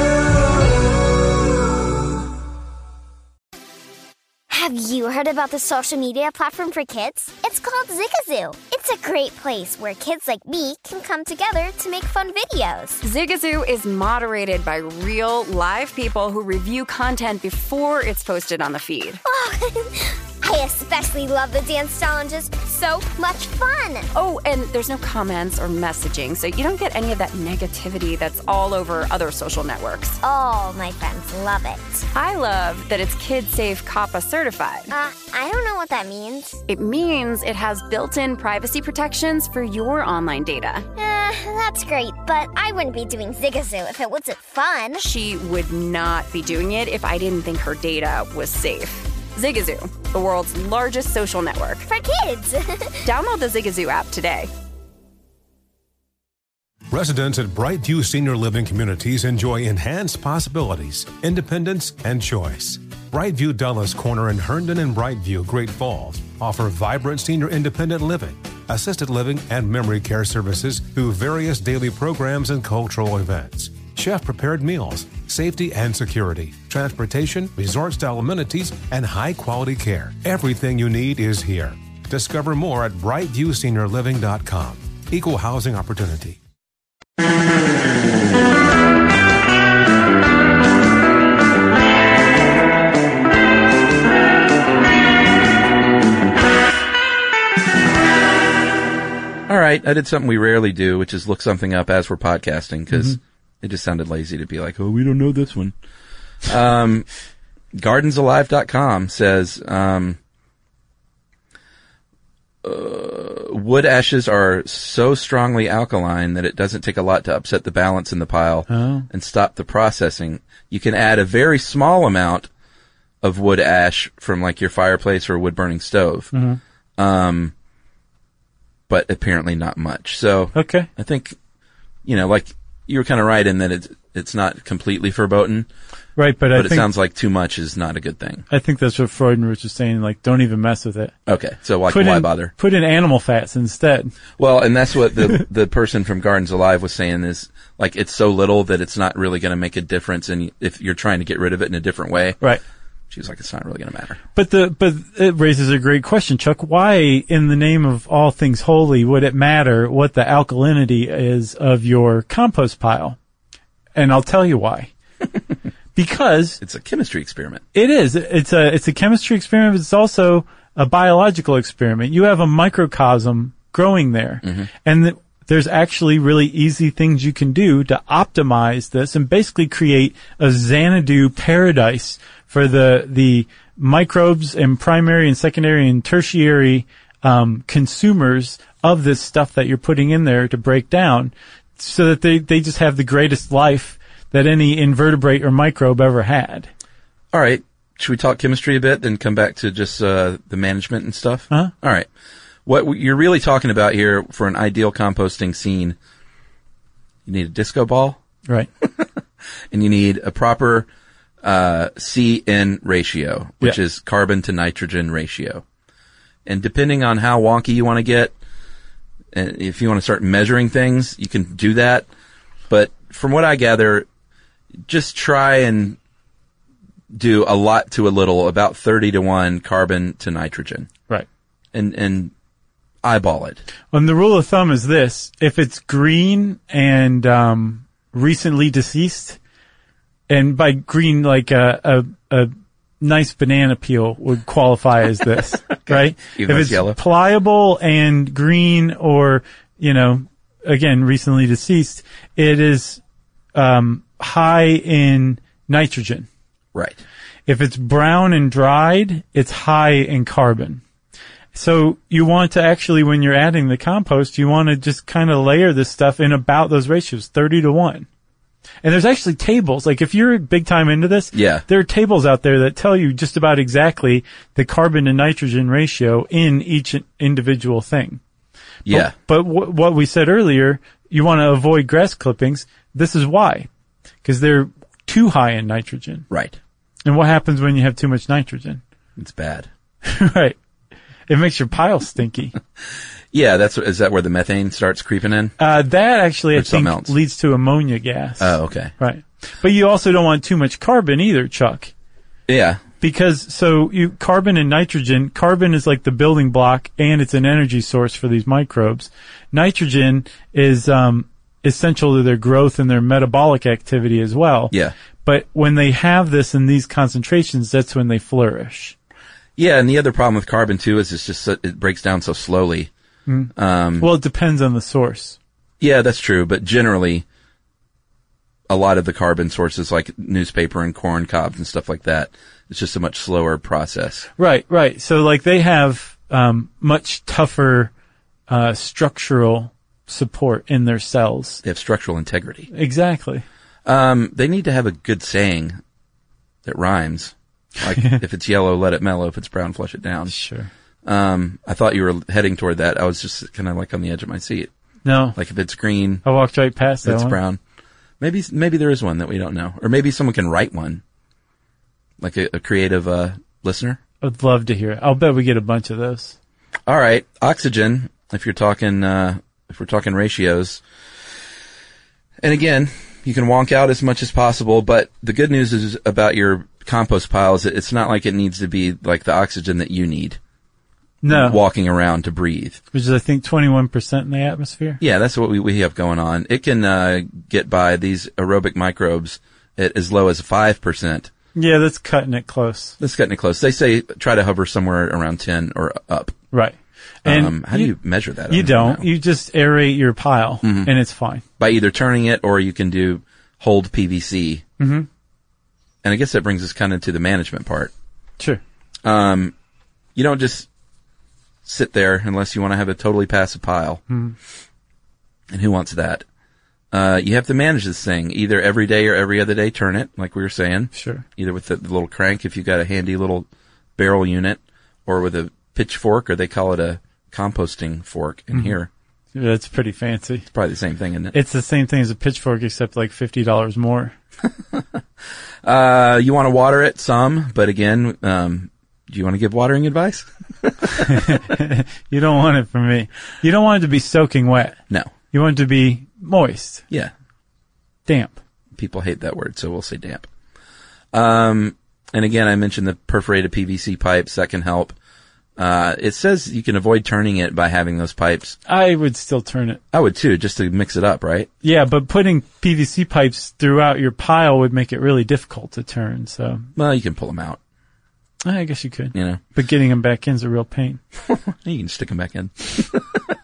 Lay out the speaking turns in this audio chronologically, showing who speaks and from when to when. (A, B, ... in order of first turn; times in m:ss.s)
0:04.5-0:13.0 A
0:13.0-0:19.2 B
0:19.2-0:24.1 A
0:24.1-0:30.2 B
0:30.2-0:32.0 A
0:32.1-0:34.9 B
0:34.9-0:36.6 A
0:36.7-0:40.9 B
0:41.0-0:45.1 A
0:45.0-0:51.9 B
0:51.9-0:53.1 A
0:53.0-0:54.5 B
0:56.9-1:26.4 C
1:39.5-1:45.8 D
1:46.4-1:47.1 D
1:47.7-1:50.2 D
1:52.6-2:02.5 D
1:58.7-1:59.1 E
2:03.2-2:06.3 D
2:06.3-2:06.6 E
2:07.0-2:07.5 D
2:08.9-2:11.4 D
2:10.6-2:10.9 E
2:12.0-2:15.7 D
2:16.2-2:16.9 E
2:16.5-2:18.4 D
2:18.5-2:21.1 E
2:21.3-2:22.5 D
2:21.9-2:24.1 E
2:24.4-2:32.4 D
2:33.1-2:34.2 D
2:34.4-2:43.2 E
2:44.0-2:44.9 E
2:46.0-2:46.6 E
2:46.6-2:47.6 D
2:47.7-3:16.7 E
2:54.4-2:54.7 D
3:17.3-3:22.1 D
3:22.7-3:26.0 D
3:27.3-3:28.2 D
3:29.7-3:30.9 D
3:31.4-3:35.6 D
3:36.5-3:38.4 D
3:39.3-3:42.1 D
3:42.7-3:44.1 D
3:44.9-3:46.0 D
3:47.1-3:50.9 D
3:51.7-3:52.3 D
3:53.0-3:53.6 D
3:53.9-3:59.4 E
4:00.3-4:13.0 E
4:05.9-4:07.0 D
4:13.6-4:16.3 E
4:16.7-4:17.0 D
4:17.5-4:20.8 E
4:21.5-4:28.1 E
4:28.8-4:38.2 E
4:31.3-4:31.6 D
4:38.8-4:39.1 D
4:38.9-4:43.7 E
4:44.2-4:46.3 E
4:46.3-4:46.6 D
4:47.0-4:48.8 E
4:49.2-4:49.7 D
4:50.0-4:50.6 E
4:51.3-4:52.6 E
4:53.3-4:55.6 D
4:55.6-5:01.9 E
4:56.6-4:57.2 D
4:58.4-4:58.9 D
5:02.5-5:02.8 D
5:03.0-5:19.0 E
5:19.6-5:22.9 D
5:23.3-5:25.4 E
5:23.6-5:24.1 D
5:25.8-5:27.2 D
5:28.7-5:34.3 D
5:34.4-5:37.9 E
5:38.5-5:41.6 E
5:41.6-5:42.7 D
5:42.7-5:43.4 E
5:43.8-5:45.8 D
5:46.6-5:50.3 D
5:47.9-5:48.2 E
5:50.3-5:50.7 E
5:51.0-5:54.7 D
5:55.0-5:55.4 E
5:55.4-5:56.2 D
5:56.2-5:57.4 E
5:57.0-5:57.6 D
5:58.2-6:01.0 D
6:02.2-6:04.0 D
6:04.2-6:06.4 E
6:06.9-6:10.8 D
6:12.4-6:20.4 D
6:21.2-6:21.6 E
6:21.3-6:22.8 D
6:22.9-6:25.0 E
6:25.0-6:31.3 D
6:31.6-6:33.0 E
6:33.0-6:36.4 D
6:36.5-6:37.9 E
6:37.2-6:39.0 D
6:38.5-6:41.4 E
6:40.6-6:40.9 D
6:41.6-6:44.6 D
6:44.8-6:45.1 E
6:46.0-6:47.9 D
6:49.0-6:49.5 D
6:50.2-6:50.7 D
6:51.6-6:54.0 D
6:54.1-6:54.4 E
6:55.5-6:56.2 D
6:56.9-7:08.9 D
7:00.9-7:01.2 E
7:09.4-7:10.5 E
7:10.5-7:11.4 D
7:11.3-7:14.1 E
7:15.6-7:21.2 D
7:21.0-7:24.8 E
7:25.3-7:26.8 E
7:28.1-7:28.4 E
7:28.8-7:30.3 D
7:31.1-7:35.0 D
7:35.6-7:38.6 D
7:38.7-7:39.8 E
7:39.9-7:41.5 D
7:41.6-7:46.7 E
7:46.8-7:47.6 D
7:48.4-7:51.0 E
7:49.1-7:49.4 D
7:51.3-7:53.2 D